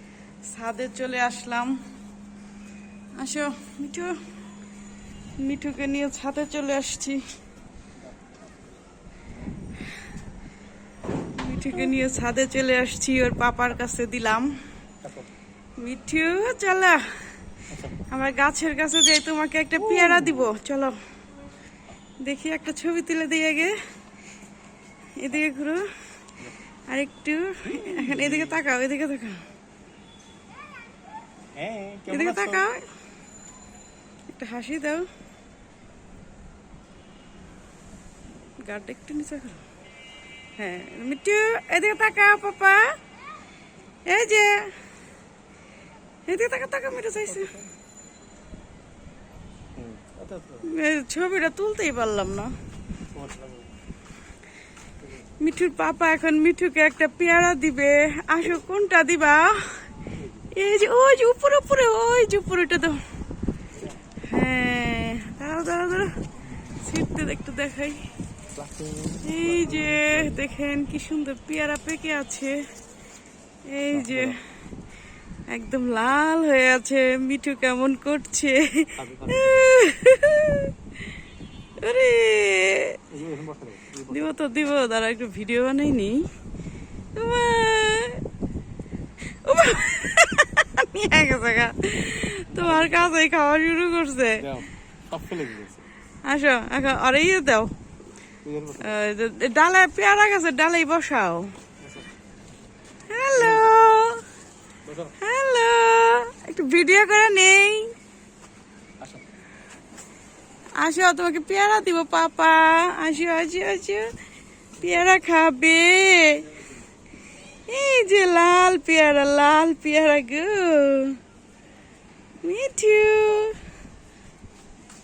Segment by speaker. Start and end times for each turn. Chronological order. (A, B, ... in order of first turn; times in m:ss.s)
0:00.4-0:01.8 A
0:03.2-0:04.2 A
0:05.4-0:07.2 A
0:11.4-0:14.5 A
0:15.8-0:17.0 A
0:17.7-0:18.0 B
0:18.1-0:21.0 A
0:19.8-0:20.5 B
0:22.2-0:23.8 A
0:25.2-0:25.9 A
0:26.9-0:29.4 A
0:27.7-0:28.6 B
0:31.6-0:32.7 B
0:32.1-0:32.8 A
0:34.3-0:35.0 A
0:38.6-0:39.6 A
0:40.6-0:42.9 A
0:44.1-0:44.7 A
0:46.3-0:47.5 A
0:47.0-0:47.7 B
0:49.8-0:50.7 B
0:50.6-0:52.5 A
0:53.1-0:53.7 B
0:55.4-0:59.8 A
1:00.5-1:03.0 A
1:04.3-1:06.2 A
1:06.7-1:08.0 A
1:08.5-1:10.4 B
1:09.2-1:12.6 A
1:13.7-1:14.4 A
1:13.9-1:14.4 B
1:15.5-1:20.7 A
1:19.0-1:19.6 B
1:21.8-1:23.0 A
1:23.1-1:24.3 B
1:24.1-1:26.3 A
1:27.2-1:28.2 A
1:29.3-1:34.5 A
1:32.5-1:33.2 B
1:34.4-1:35.9 B
1:36.2-1:37.7 A
1:38.4-1:39.0 B
1:38.8-1:41.5 A
1:41.8-1:42.1 B
1:43.1-1:44.2 A
1:43.3-1:43.8 B
1:44.8-1:45.2 B
1:45.2-1:47.9 A
1:50.8-1:54.1 A
1:54.8-1:56.5 A
1:57.7-2:01.2 A
2:02.4-2:03.6 A